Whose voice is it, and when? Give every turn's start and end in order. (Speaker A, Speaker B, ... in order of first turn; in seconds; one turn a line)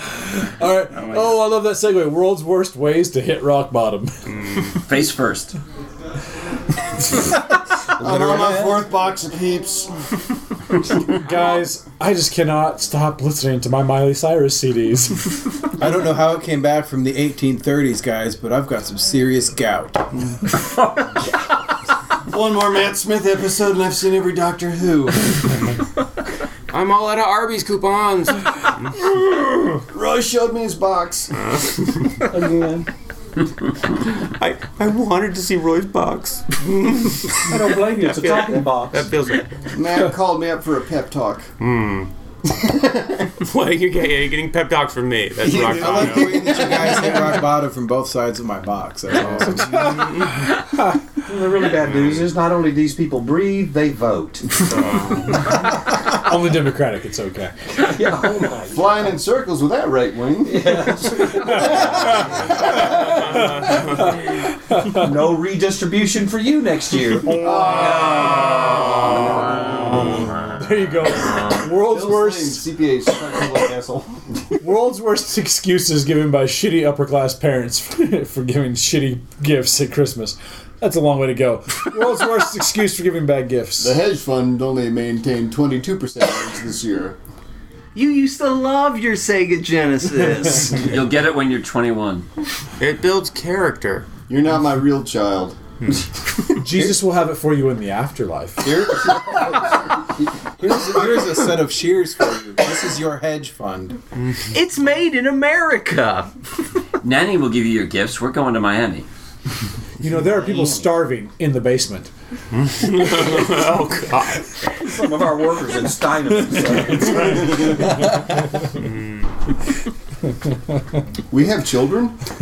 Speaker A: 0.3-4.2
Speaker B: 4.8-5.6
Speaker C: 8.0-8.9
Speaker D: 8.0-9.9
Speaker A: 11.2-15.3
Speaker E: 15.8-20.1
Speaker D: 22.3-25.5
Speaker F: 26.7-28.9
Speaker D: 29.2-31.3
Speaker F: 31.4-31.8
Speaker C: 32.3-32.9
Speaker F: 34.2-39.5
Speaker C: 37.4-39.1
Speaker D: 39.7-41.5
Speaker F: 41.6-42.1
Speaker D: 42.5-43.3
Speaker F: 43.4-46.6
Speaker D: 45.4-47.2
Speaker E: 45.5-50.0
Speaker A: 49.4-51.0
Speaker F: 49.8-50.3
Speaker C: 51.3-54.5
Speaker F: 51.8-52.3
Speaker F: 54.6-55.5
Speaker A: 55.5-57.9
Speaker C: 57.8-59.0
Speaker D: 58.7-61.3
Speaker C: 60.5-62.2
Speaker A: 61.2-65.2
Speaker F: 62.7-64.1
Speaker C: 64.9-68.6
Speaker A: 67.2-68.4
Speaker D: 67.3-70.3
Speaker C: 69.4-70.1
Speaker A: 70.6-72.7
Speaker D: 71.7-74.2
Speaker A: 74.6-84.0
Speaker D: 83.8-87.2
Speaker G: 88.0-90.8
Speaker B: 90.7-92.3
Speaker F: 92.8-94.1
Speaker D: 94.3-95.6
Speaker A: 96.5-98.7
Speaker D: 98.7-99.6
Speaker E: 100.6-104.0
Speaker G: 104.5-106.3
Speaker B: 107.0-109.1
Speaker A: 110.0-112.1
Speaker C: 110.1-110.9
Speaker F: 112.5-114.4
Speaker C: 114.8-117.7
Speaker A: 116.5-118.2
Speaker F: 118.7-119.3
Speaker D: 121.3-122.2